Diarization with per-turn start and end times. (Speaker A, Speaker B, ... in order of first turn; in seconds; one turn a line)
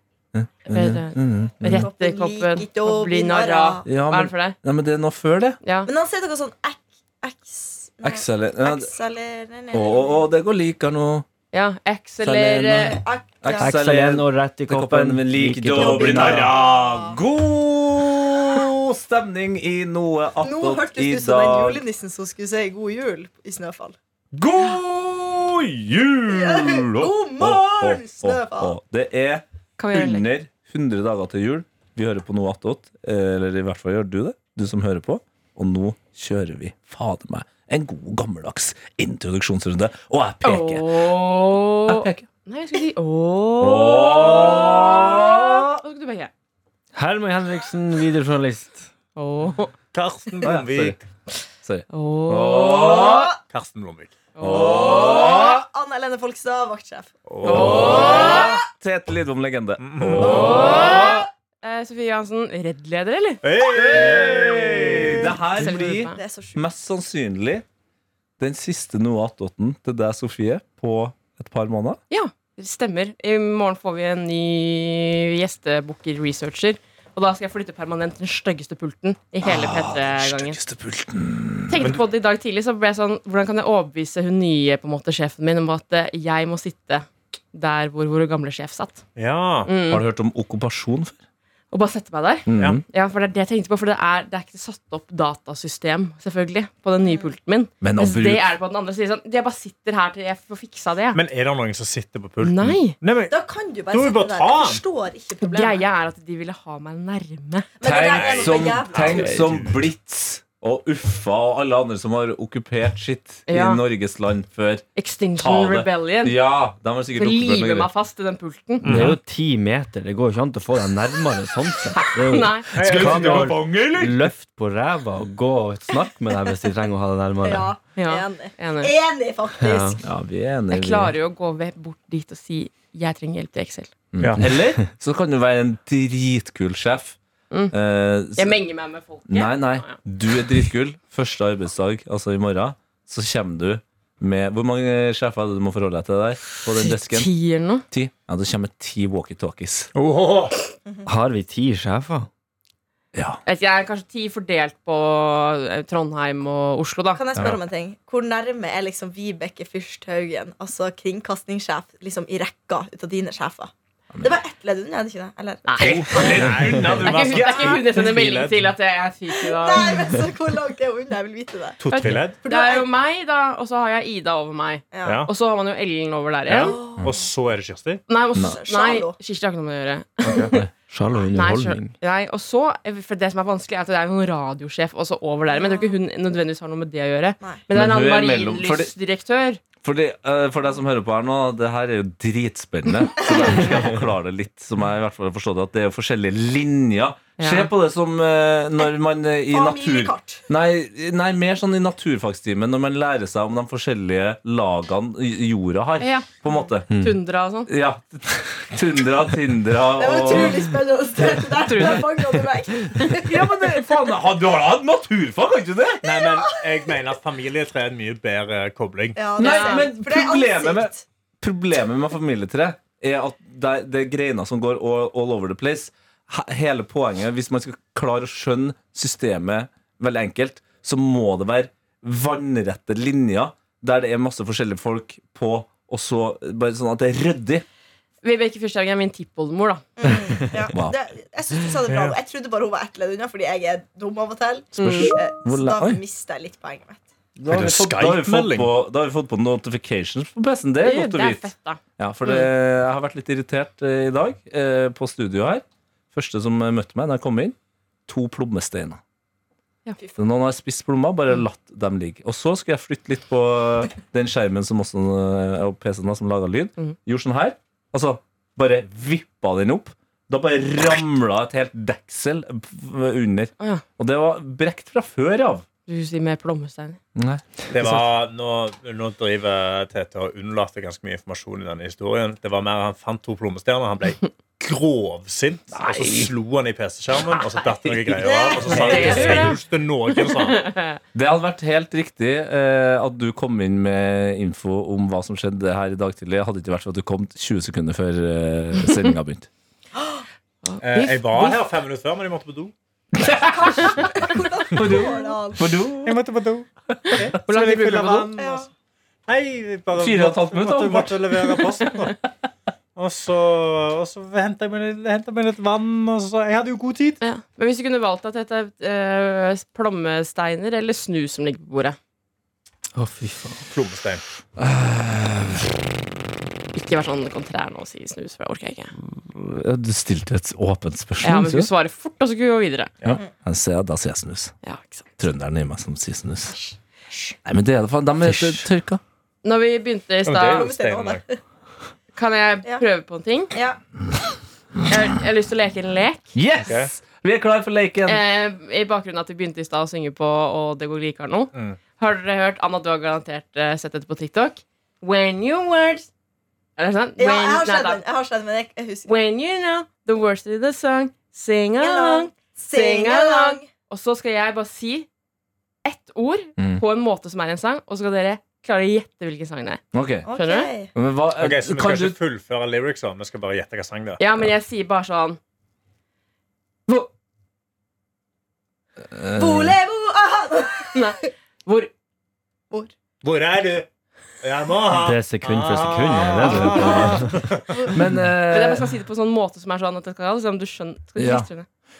Speaker A: 0.3-1.9
Speaker B: 0.7-4.6
Speaker C: 1.7-3.9
Speaker A: 3.9-5.6
Speaker B: 5.6-5.9
Speaker C: 5.9-10.3
Speaker A: 8.0-8.9
Speaker A: 9.7-11.3
Speaker B: 11.5-13.0
Speaker A: 12.2-13.0
Speaker C: 12.8-13.7
Speaker D: 13.4-16.5
Speaker A: 13.5-21.8
Speaker C: 15.7-17.2
Speaker C: 20.4-24.0
Speaker A: 24.3-40.9
Speaker C: 26.3-28.8
Speaker B: 29.8-30.2
Speaker B: 40.4-46.3
Speaker A: 41.9-42.3
Speaker A: 43.6-45.8
Speaker D: 46.9-48.9
Speaker B: 49.2-49.7
Speaker E: 49.9-51.0
Speaker A: 50.4-51.0
Speaker A: 51.6-53.3
Speaker B: 51.9-53.1
Speaker C: 52.9-53.3
Speaker E: 53.5-54.1
Speaker B: 54.4-55.2
Speaker A: 54.4-55.6
Speaker C: 54.5-57.2
Speaker E: 57.3-58.3
Speaker A: 57.4-61.2
Speaker B: 57.5-58.5
Speaker C: 58.1-58.5
Speaker E: 59.8-60.6
Speaker C: 60.2-61.2
Speaker B: 60.2-63.4
Speaker E: 63.4-65.3
Speaker A: 63.7-67.7
Speaker B: 65.6-66.2
Speaker C: 66.1-66.6
Speaker A: 68.4-72.0
Speaker B: 72.1-80.6
Speaker A: 79.4-82.0
Speaker B: 81.7-89.0
Speaker E: 89.2-89.7
Speaker B: 89.7-90.0
Speaker A: 89.9-91.2
Speaker B: 91.7-101.2
Speaker A: 92.5-92.8
Speaker C: 97.0-97.3
Speaker A: 97.8-98.5
Speaker E: 101.1-103.3
Speaker B: 102.4-103.0
Speaker C: 103.3-105.8
Speaker E: 103.9-104.8
Speaker B: 105.4-107.7
Speaker C: 107.8-109.3
Speaker A: 107.8-114.9
Speaker E: 108.0-109.8
Speaker D: 109.1-109.7
Speaker B: 113.5-113.8
Speaker B: 115.0-116.4
Speaker A: 115.4-117.9
Speaker B: 117.2-118.9
Speaker E: 118.8-119.2
Speaker D: 118.9-127.7
Speaker B: 122.0-122.7
Speaker E: 122.8-123.6
Speaker A: 122.8-124.3
Speaker C: 127.4-130.1
Speaker B: 128.0-128.9
Speaker D: 129.6-130.0
Speaker A: 130.0-131.2
Speaker B: 130.7-133.9
Speaker A: 134.1-137.2
Speaker E: 134.2-134.5
Speaker D: 134.4-134.7
Speaker A: 137.7-138.6
Speaker B: 138.3-140.0
Speaker A: 139.3-147.3
Speaker B: 146.8-147.8
Speaker A: 147.9-149.9
Speaker E: 149.9-150.6
Speaker D: 151.1-152.3
Speaker A: 153.1-153.4
Speaker B: 153.5-157.2
Speaker C: 157.2-166.4
Speaker B: 165.7-169.9
Speaker A: 165.8-167.5
Speaker E: 166.0-168.6
Speaker C: 169.3-171.8
Speaker E: 171.8-172.4
Speaker B: 171.8-176.8
Speaker C: 172.4-172.9
Speaker C: 174.9-175.3
Speaker E: 175.0-175.3
Speaker E: 176.5-178.0
Speaker C: 176.5-177.3
Speaker B: 178.1-180.6
Speaker C: 178.4-179.2
Speaker D: 180.5-181.9
Speaker B: 181.3-189.6
Speaker C: 185.5-186.0
Speaker A: 187.7-188.9
Speaker A: 189.8-206.9
Speaker B: 197.4-197.7
Speaker C: 199.5-200.4
Speaker B: 206.0-206.3
Speaker D: 206.9-207.2
Speaker B: 207.0-207.7
Speaker A: 207.7-210.7
Speaker C: 210.0-213.3
Speaker B: 211.6-212.3
Speaker A: 213.2-216.0
Speaker E: 216.0-219.2
Speaker C: 216.1-216.7
Speaker C: 219.2-221.0
Speaker A: 219.4-237.7
Speaker B: 219.4-219.9
Speaker B: 238.2-239.9
Speaker C: 240.0-247.0
Speaker E: 241.9-242.2
Speaker A: 244.8-246.0
Speaker B: 244.8-245.2
Speaker A: 247.4-257.6
Speaker E: 247.5-248.7
Speaker B: 250.8-252.5
Speaker A: 258.1-259.0
Speaker A: 260.2-275.7
Speaker B: 275.9-277.0
Speaker A: 277.2-278.1
Speaker E: 277.7-290.7
Speaker A: 285.7-286.3
Speaker C: 288.1-289.6
Speaker B: 288.6-289.6
Speaker B: 290.1-291.0
Speaker A: 291.1-299.5
Speaker B: 298.9-299.1
Speaker B: 300.7-301.6
Speaker E: 300.8-302.7
Speaker A: 303.2-304.1
Speaker C: 303.5-305.7
Speaker A: 304.7-306.2
Speaker E: 306.0-308.7
Speaker B: 307.1-308.3
Speaker C: 308.4-308.7
Speaker E: 309.3-312.2
Speaker A: 309.9-311.6
Speaker E: 312.9-317.2
Speaker B: 317.2-322.0
Speaker D: 322.9-323.6
Speaker E: 323.7-324.2
Speaker A: 324.6-325.7
Speaker B: 326.7-328.9
Speaker A: 329.1-331.7
Speaker B: 331.2-332.9
Speaker A: 333.1-334.5
Speaker B: 334.6-335.1
Speaker A: 335.2-336.6
Speaker C: 336.5-337.4
Speaker A: 337.4-339.0
Speaker D: 338.3-338.6
Speaker B: 339.4-340.7
Speaker E: 340.3-341.2
Speaker C: 340.4-341.4
Speaker B: 342.1-343.5
Speaker C: 343.5-343.8
Speaker B: 344.9-346.3
Speaker A: 346.4-348.2
Speaker E: 346.7-346.9
Speaker B: 348.1-356.1
Speaker B: 356.8-358.0
Speaker C: 357.2-359.1
Speaker B: 359.1-365.1
Speaker C: 361.8-363.7
Speaker B: 365.9-370.7
Speaker A: 369.9-370.3
Speaker C: 370.3-370.9
Speaker A: 370.9-372.2
Speaker E: 371.4-374.2
Speaker B: 374.2-375.4
Speaker A: 379.1-379.8
Speaker C: 379.3-381.0
Speaker B: 380.9-381.9
Speaker E: 383.2-383.9
Speaker E: 384.4-387.9
Speaker D: 384.9-387.4
Speaker A: 387.9-388.9
Speaker B: 388.5-391.7
Speaker A: 391.2-391.5